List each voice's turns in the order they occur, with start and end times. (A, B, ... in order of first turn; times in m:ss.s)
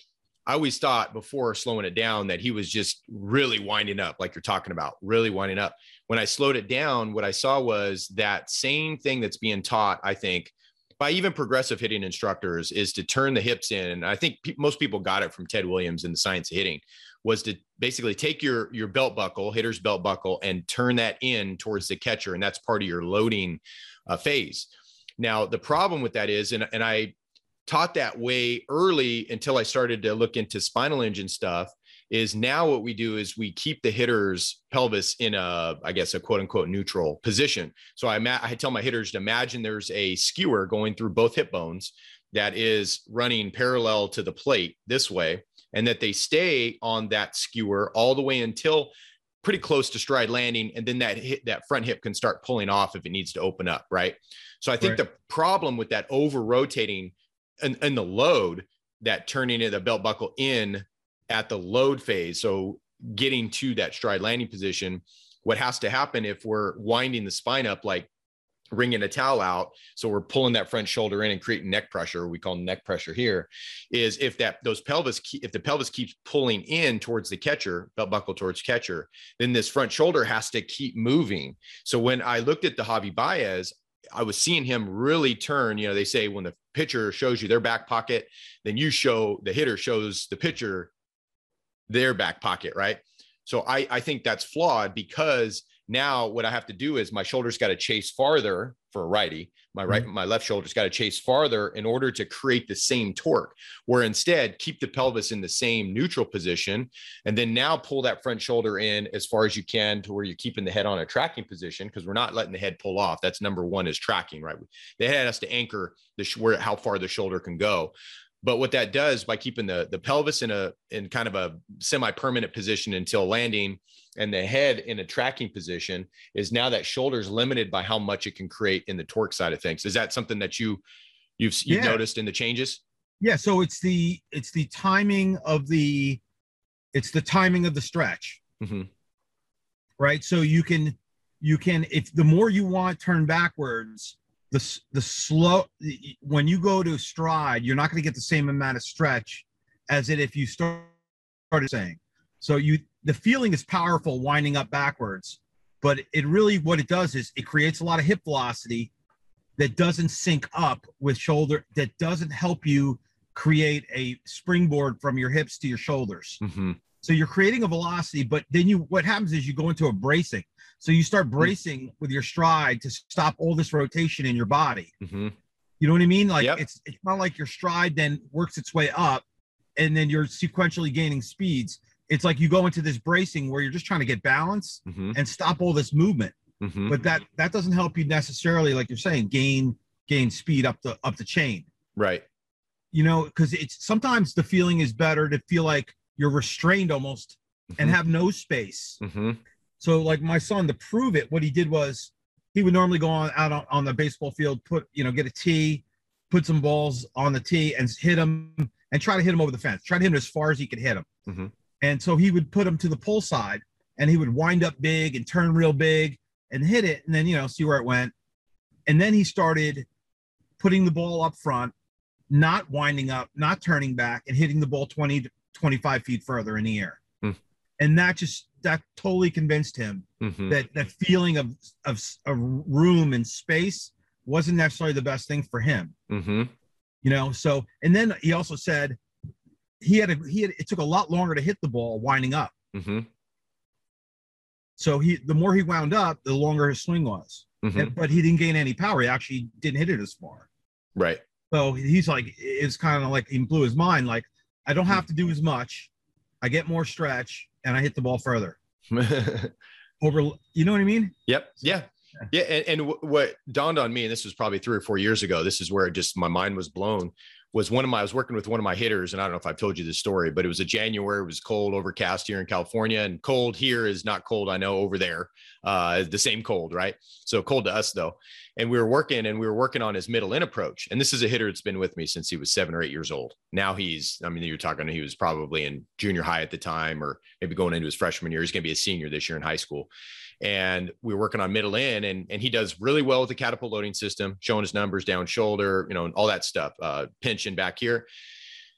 0:00.5-0:24.7 A
0:25.2-0:27.2 A
0:27.7-1:08.1 A
1:08.7-1:30.9 A
1:31.9-2:10.8 A
2:11.4-2:12.8 A
2:11.7-2:12.0 B
2:13.2-2:16.2 B
2:16.9-2:18.4 B
2:18.6-2:18.9 A
2:20.0-2:30.9 B
2:31.5-2:38.9 B
2:39.6-2:46.4 B
2:46.4-2:46.8 A
2:47.0-2:54.9 B
2:55.0-2:55.4 A
2:55.8-2:59.2 B
2:59.8-3:06.4 B
3:04.9-3:05.2 A
3:06.6-3:07.0 A
3:06.9-3:11.7 B
3:12.0-3:12.2 A
3:12.9-3:19.0 B
3:19.0-3:19.4 A
3:19.8-3:31.1 B
3:31.3-3:31.5 A
3:31.8-3:38.1 B
3:38.9-3:39.9 B
3:40.6-3:41.7 B
3:42.3-3:47.0 B
3:47.8-3:55.9 B
3:50.2-3:50.6 A
3:56.1-3:56.5 A
3:57.0-3:59.0 B
3:59.8-4:02.5 B
4:02.7-4:03.1 A
4:04.8-4:10.5 B
4:07.6-4:07.9 A
4:11.0-4:11.2 A
4:11.5-4:15.9 B
4:16.4-4:18.6 B
4:18.9-4:19.5 A
4:20.0-4:21.8 B
4:21.3-4:49.9 A
4:50.4-4:58.1 A